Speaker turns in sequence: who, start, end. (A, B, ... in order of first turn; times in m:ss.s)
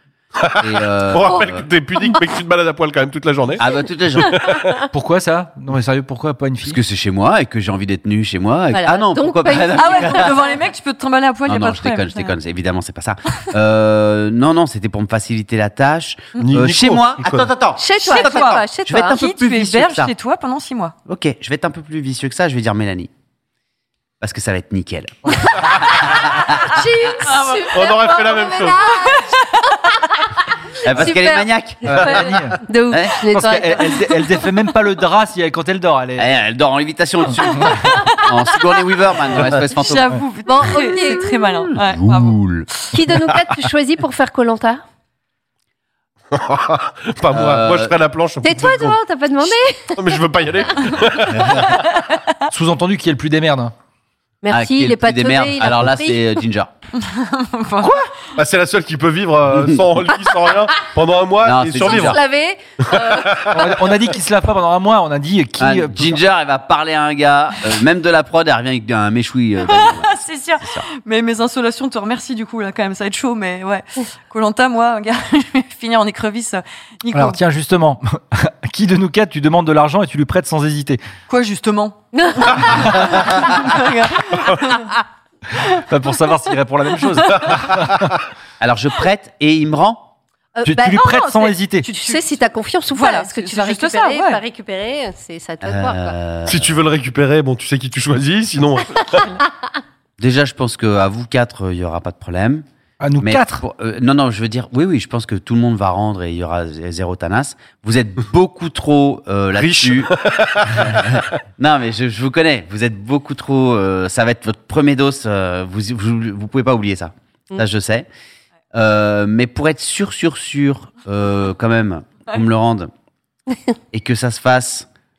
0:00.4-0:03.6 A
0:00.6-0:01.7 B
0:03.6-0:04.4 B
0:04.2-0:04.9 A
0:04.9-0:06.8 C
0:06.6-0:10.4 B
0:08.7-0:10.3 D
0:09.7-0:12.4 E
0:11.5-0:20.1 B
0:16.4-0:17.5 A
0:17.8-0:19.2 D
0:18.0-0:20.9 E
0:21.1-0:23.1 B
0:24.2-0:26.7 B
0:26.7-0:30.1 D
0:27.2-0:28.1 E
0:27.7-0:28.8 A
0:28.9-0:29.5 E
0:30.8-0:32.2 B
0:30.9-0:34.4 D
0:31.9-0:32.6 C
0:32.9-0:33.2 B
0:33.3-0:36.2 C
0:36.2-0:40.2 B
0:39.3-0:42.4 E
0:40.4-0:41.7 D
0:41.7-0:42.7 B
0:42.9-0:44.8 D
0:46.3-0:49.0 A
0:47.3-0:48.0 B
0:48.4-0:50.2 D
0:50.0-0:51.8 A
0:51.7-0:52.0 E
0:52.5-0:53.7 C
0:54.4-0:56.4 D
0:54.5-0:56.7 B
0:57.0-0:58.0 E
0:57.8-0:58.1 C
0:58.4-1:02.2 A
0:59.5-0:59.8 B
1:01.4-1:02.2 B
1:01.8-1:03.6 D
1:02.8-1:03.6 A
1:03.5-1:06.2 C
1:05.6-1:10.8 B
1:09.6-1:17.4 E
1:17.1-1:21.0 C
1:21.3-1:24.9 E
1:22.1-1:22.7 D
1:22.8-1:23.1 C
1:24.3-1:24.6 A
1:25.6-1:28.1 C
1:27.3-1:28.1 A
1:28.6-1:30.1 B
1:30.5-1:36.1 D
1:30.6-1:31.8 C
1:31.8-1:32.4 E
1:32.9-1:34.4 E
1:35.6-1:36.8 B
1:36.5-1:39.3 A
1:40.2-1:42.6 B
1:43.0-1:43.6 C
1:43.2-1:58.1 B
1:49.5-1:51.2 A
1:58.7-2:02.9 B
2:03.9-2:04.9 B